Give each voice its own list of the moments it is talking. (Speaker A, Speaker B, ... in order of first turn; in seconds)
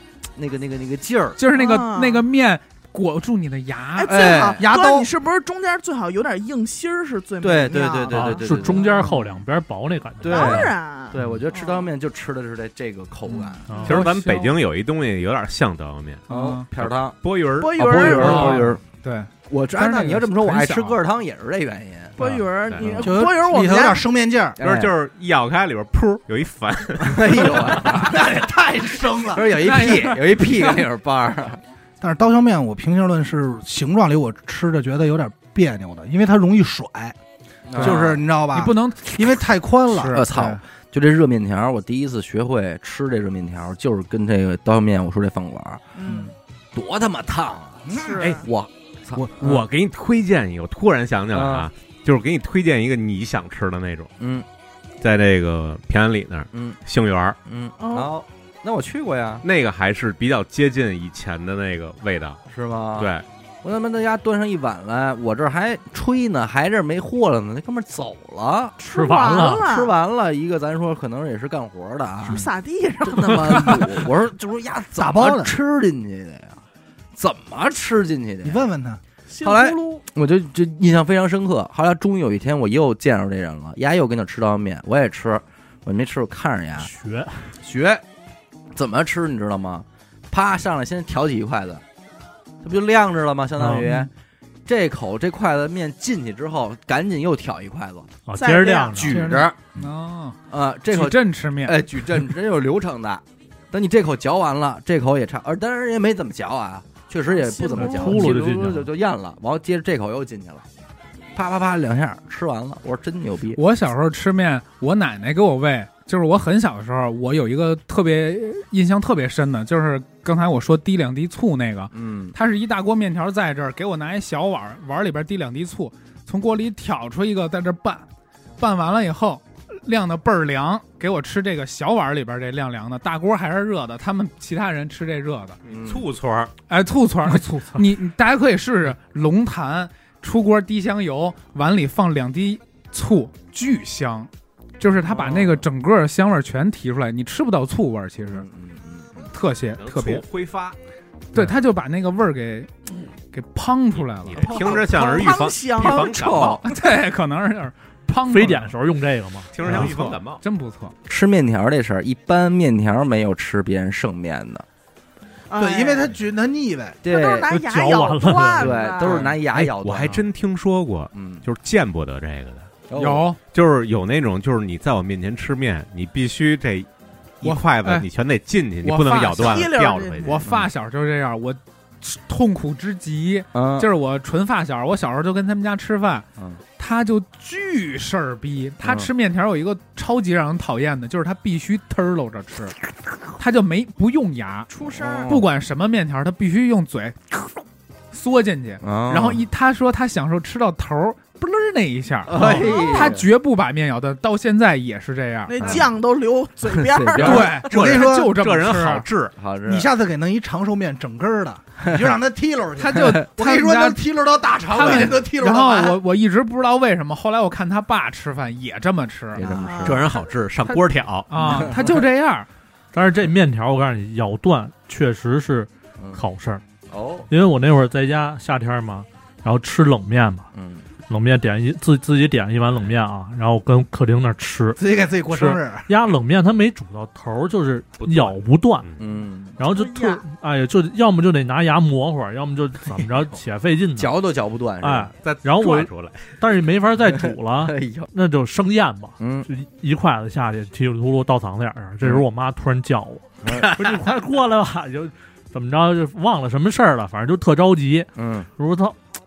Speaker A: 0.4-1.4, 4.1-4.7, 7.4-8.8, 10.2-13.7, 16.3-17.2, 17.7-18.8, 19.5-22.2, 22.8-23.1, 24.6-24.9, 27.0-28.2, 29.3-31.6, 37.7-38.2, 40.1-45.8, 46.7-49.7, 51.3-51.7, 54.2-54.5, 56.5-56.8, 57.5-59.4, 62.5-63.1, 63.6-68.8, 69.6-72.5, 73.0-76.6, 77.2-78.7, 79.4-86.9, 87.6-88.0, 88.7-91.8, 92.6-94.1, 94.7-98.1, 99.0-99.6, 100.5-110.7, 111.3-113.6, 121.9-122.4, 135.7-136.1, 145.1-145.7, 148.2-149.3, 155.8-156.6, 161.1-164.7, 167.0-167.5, 168.6-170.2, 171.1-171.4, 172.9-173.3, 180.4-180.7, 183.5-183.9, 188.8-189.1, 194.8-195.5, 198.8-199.4, 202.3-203.3, 205.6-205.9, 206.7-207.6, 209.4-209.9, 211.8-212.2, 214.8-215.2, 219.3-220.1, 221.4-221.9, 226.0-226.2, 226.9-227.3, 230.5-230.8, 239.0-239.6, 244.0-245.1, 247.1-248.1, 249.2-249.5, 253.4-253.7, 258.2-258.5
Speaker B: 1.4-4.2, 8.7-9.4, 13.3-14.6, 16.3-16.7, 18.0-21.0, 29.6-30.8, 37.8-39.2, 39.9-40.6, 93.8-94.1, 99.0-100.4, 100.9-101.8, 113.6-128.1, 128.6-135.6, 136.7-148.5, 149.3-150.2, 151.3-154.8, 156.6-158.7, 159.6-160.9, 173.0-173.4, 177.4-178.1, 178.8-179.7, 180.2-186.3, 186.8-192.8, 193.4-194.7, 195.3-197.6, 198.1-205.7, 207.2-209.1, 212.8-214.0, 214.7-219.7, 220.7-222.5
Speaker C: 1.5-2.3, 4.0-8.4, 10.2-11.9, 17.6-18.6, 22.2-24.1, 46.0-46.3, 47.9-48.5, 57.8-58.1, 68.8-69.9, 72.3-74.0, 79.3-80.0, 98.3-99.1, 107.2-108.2, 154.5-156.1, 165.5-166.2, 167.1-169.2, 179.4-180.5, 194.7-195.4, 202.4-203.2, 205.5-207.6, 219.5-220.1, 239.6-240.2
Speaker D: 4.6-5.1, 23.0-24.6, 27.9-29.5, 32.0-37.2, 37.8-40.2, 47.9-48.4, 75.0-75.5, 78.5-79.0, 165.6-167.0, 207.2-208.3, 209.7-216.0, 234.8-235.9
Speaker E: 8.1-10.7, 13.7-14.0, 68.9-69.7, 86.8-87.5, 93.6-93.9, 98.3-99.3, 107.8-108.9, 158.3-159.5, 167.5-168.8, 222.9-226.6, 227.3-230.5, 231.1-234.8, 235.3-238.9, 239.6-244.1, 244.8-259.0
Speaker F: 13.9-16.2, 16.8-18.5, 22.7-23.0, 24.6-27.9, 49.2-54.1, 55.0-57.4, 59.4-62.4, 63.0-63.2, 135.7-136.5, 149.8-150.8, 154.0-156.6, 159.5-160.4, 169.5-172.7, 173.5-176.9, 177.4-180.4, 207.6-209.3, 219.8-221.7, 238.0-239.0, 245.2-246.3, 253.5-253.9